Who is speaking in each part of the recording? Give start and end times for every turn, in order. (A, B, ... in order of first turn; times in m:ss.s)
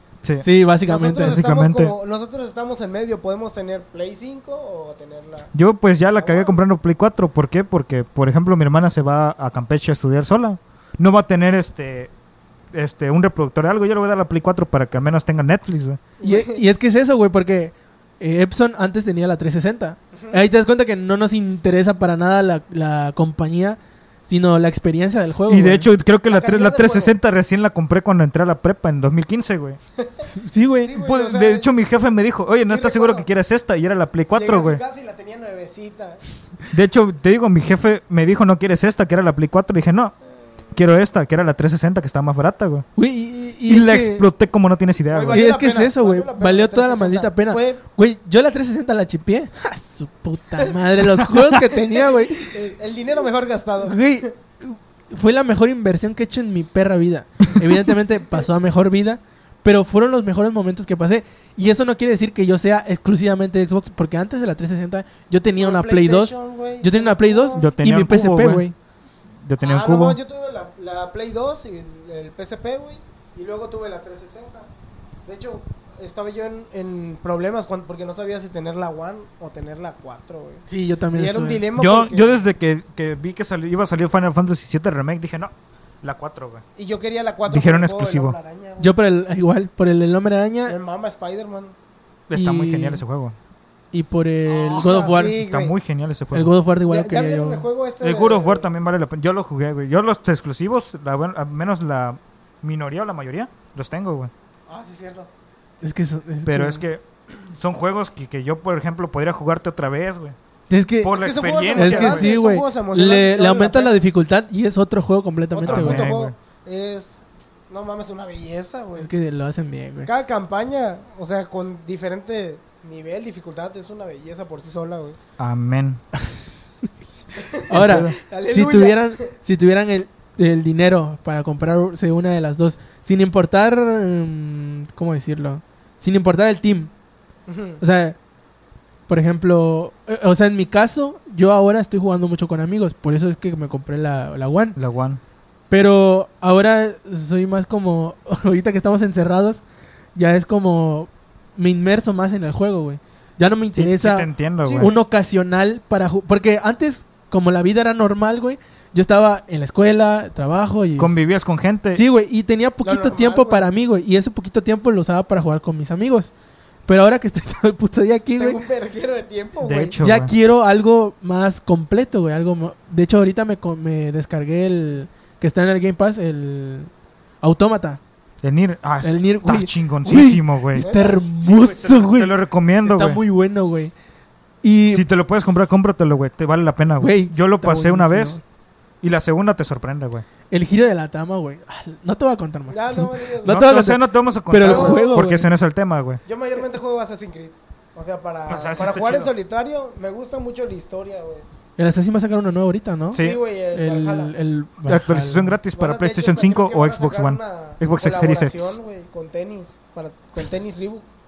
0:00.4-0:01.4 A
0:00.9-0:05.5 B
0:01.2-0:01.9 C
0:05.5-0:12.1 C
0:06.2-0:06.6 B
0:12.7-0:16.0 C
0:16.2-0:16.6 B
0:16.2-0:25.9 A
0:25.5-0:29.8 C
0:26.3-0:27.1 B
0:30.0-0:30.3 B
0:30.3-0:30.9 A
0:30.8-0:31.7 B
0:31.0-0:34.8 C
0:32.6-0:33.3 B
0:34.3-0:36.2 B
0:36.7-0:40.1 C
0:40.7-0:42.9 C
0:43.0-0:44.2 A
0:43.6-0:45.4 C
0:45.1-0:47.8 B
0:45.3-0:52.7 A
0:51.2-0:51.5 C
0:51.7-0:54.3 B
0:53.8-1:08.7 A
1:05.6-1:07.7 B
1:07.6-1:08.6 C
1:09.4-1:10.2 C
1:09.6-1:14.7 B
1:15.2-1:22.4 B
1:20.7-1:21.6 A
1:21.7-1:26.6 C
1:26.8-1:29.0 B
1:27.5-1:28.4 C
1:28.8-1:30.8 A
1:30.6-1:31.7 B
1:32.3-1:33.4 C
1:32.3-1:33.0 A
1:33.9-1:35.4 A
1:34.4-1:35.7 B
1:35.4-1:36.5 C
1:36.3-1:37.6 A
1:36.9-1:38.6 B
1:38.0-1:44.3 C
1:44.7-1:45.3 B
1:45.8-1:46.8 A
1:46.4-1:50.3 C
1:50.7-1:51.1 A
1:51.0-1:52.3 C
1:51.0-1:54.0 B
1:51.7-1:56.1 A
1:55.5-1:59.1 B
1:55.7-1:56.3 C
1:59.0-2:00.1 A
2:00.0-2:05.2 B
2:05.4-2:06.0 C
2:07.4-2:09.3 B
2:07.7-2:16.9 A
2:07.8-2:08.1 C
2:17.5-2:17.8 B
2:17.8-2:18.2 A
2:19.1-2:24.8 A
2:24.8-2:25.2 C
2:25.7-2:29.6 A
2:30.1-2:41.2 A
2:33.7-2:34.9 C
2:34.6-2:35.0 B
2:41.0-2:42.0 C
2:41.9-2:46.3 A
2:42.8-2:43.7 B
2:46.9-2:48.6 A
2:48.4-2:50.0 B
2:49.6-2:50.3 C
2:50.0-2:56.9 A
2:57.4-2:58.0 A
2:58.4-3:00.9 C
2:59.0-3:03.9 A
3:00.8-3:01.2 B
3:01.4-3:03.2 C
3:04.6-3:05.0 A
3:04.9-3:08.4 C
3:07.0-3:08.4 A
3:09.0-3:10.2 C
3:10.5-3:15.5 A
3:12.7-3:13.6 B
3:13.4-3:16.2 C
3:14.6-3:15.1 B
3:16.2-3:21.4 B
3:18.5-3:19.3 C
3:21.8-3:23.2 A
3:23.1-3:23.4 C
3:23.1-3:24.3 B
3:23.7-3:25.6 A
3:24.9-3:28.8 C
3:25.8-3:31.0 B